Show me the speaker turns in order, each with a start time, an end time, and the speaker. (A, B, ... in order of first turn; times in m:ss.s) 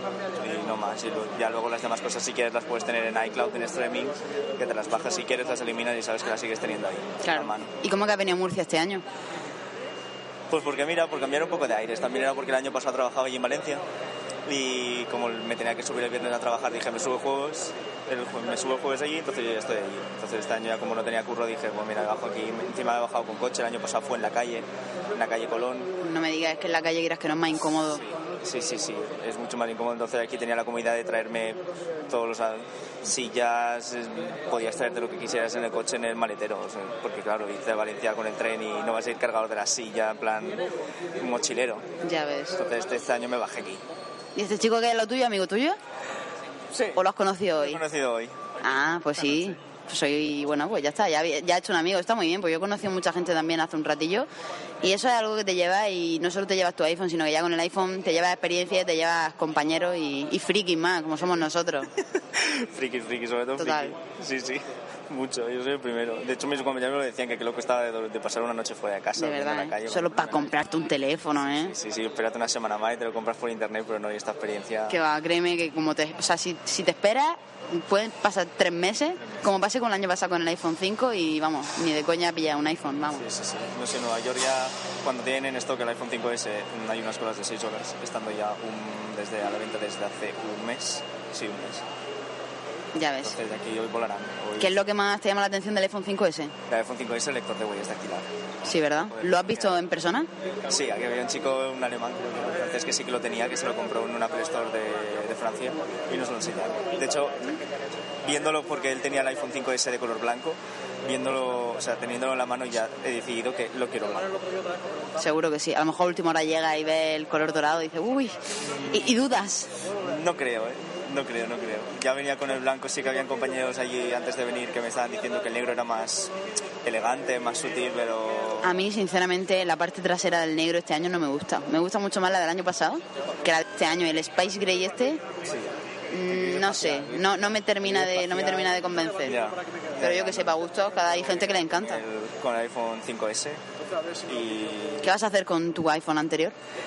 0:00.3-0:07.7 A
0:07.2-0:09.0 B
0:10.5-0:13.8 A
0:14.4-0:25.9 A
0:26.0-0:28.0 B
0:28.4-0:41.9 A
0:42.0-0:42.6 B
0:42.6-0:43.8 A
0:44.3-0:45.8 B
0:46.7-0:47.0 A
0:46.9-0:47.8 B
0:47.5-0:48.4 A
0:48.6-0:54.3 B
0:54.8-1:01.9 B
1:02.2-1:10.5 A
1:03.6-1:03.9 B
1:09.2-1:11.7 B
1:11.5-1:15.0 A
1:14.9-1:23.2 B
1:23.1-1:31.8 A
1:32.9-1:33.4 B
1:33.2-1:34.8 A
1:34.6-1:36.5 B
1:36.7-1:38.3 A
1:38.6-1:40.3 B
1:39.0-1:39.7 A
1:40.7-1:47.6 A
1:48.2-1:54.4 A
1:55.2-1:58.4 B
1:58.7-1:59.1 A
1:58.9-1:59.7 B
2:00.0-2:06.3 A
2:06.8-2:08.8 A
2:08.6-2:15.2 B
2:15.4-2:15.7 A
2:16.1-2:19.4 B
2:16.3-2:17.2 A
2:18.0-2:18.6 A
2:19.2-2:20.6 A
2:20.0-2:22.0 B
2:21.4-2:23.6 A
2:24.2-2:25.1 A
2:25.0-2:26.5 B